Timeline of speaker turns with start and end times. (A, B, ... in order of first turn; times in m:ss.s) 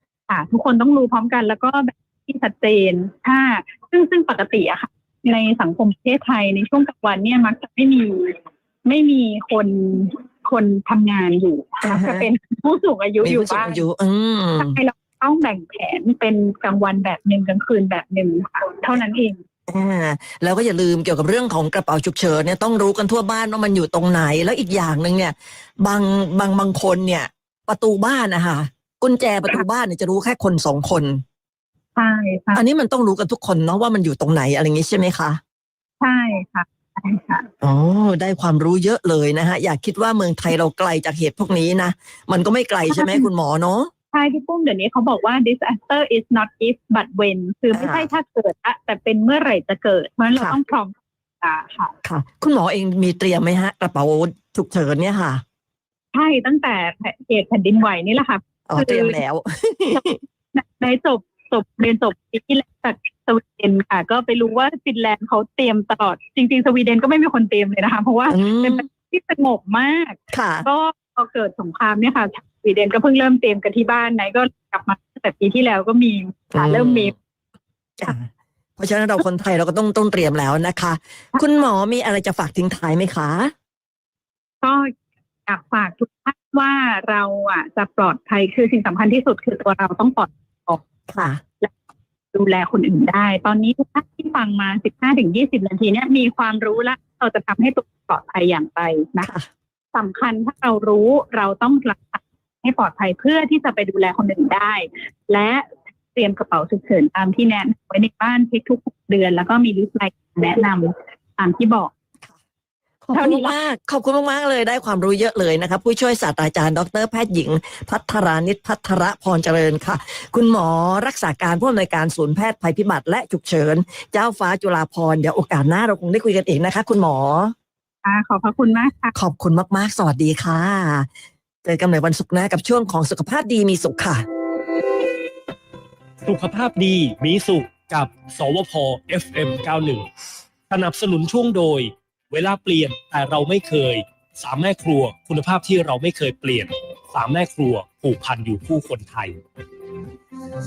0:00.3-0:13.8 A
0:11.8-0:12.2 B
0:13.2-0:14.8 B
0:14.6-0:19.4 A
0:19.7-0:31.2 B
0:32.0-0:32.6 A
0:32.6-0:35.4 B
0:36.0-0:37.5 A
0:37.6-0:43.9 B
0:42.9-0:43.3 A
0:44.1-0:51.9 A
0:47.7-0:48.1 B
0:50.3-0:50.6 B
0:52.0-0:55.4 B
0:56.1-0:59.2 A
0:58.7-1:00.2 B
1:00.5-1:17.1 A
1:08.3-1:08.8 B
1:10.3-1:10.7 B
1:16.5-1:17.1 B
1:18.0-1:23.5 B
1:24.6-1:24.9 A
1:25.5-1:30.8 A
1:31.1-1:31.4 B
1:32.3-1:39.3 A
1:39.2-1:39.5 B
1:39.9-1:51.9 A
1:53.0-2:07.5 B
1:53.1-1:53.6 A
2:08.0-2:09.1 A
2:09.1-2:11.1 B
2:11.6-2:14.2 B
2:16.2-2:20.0 C
2:20.7-2:29.3 C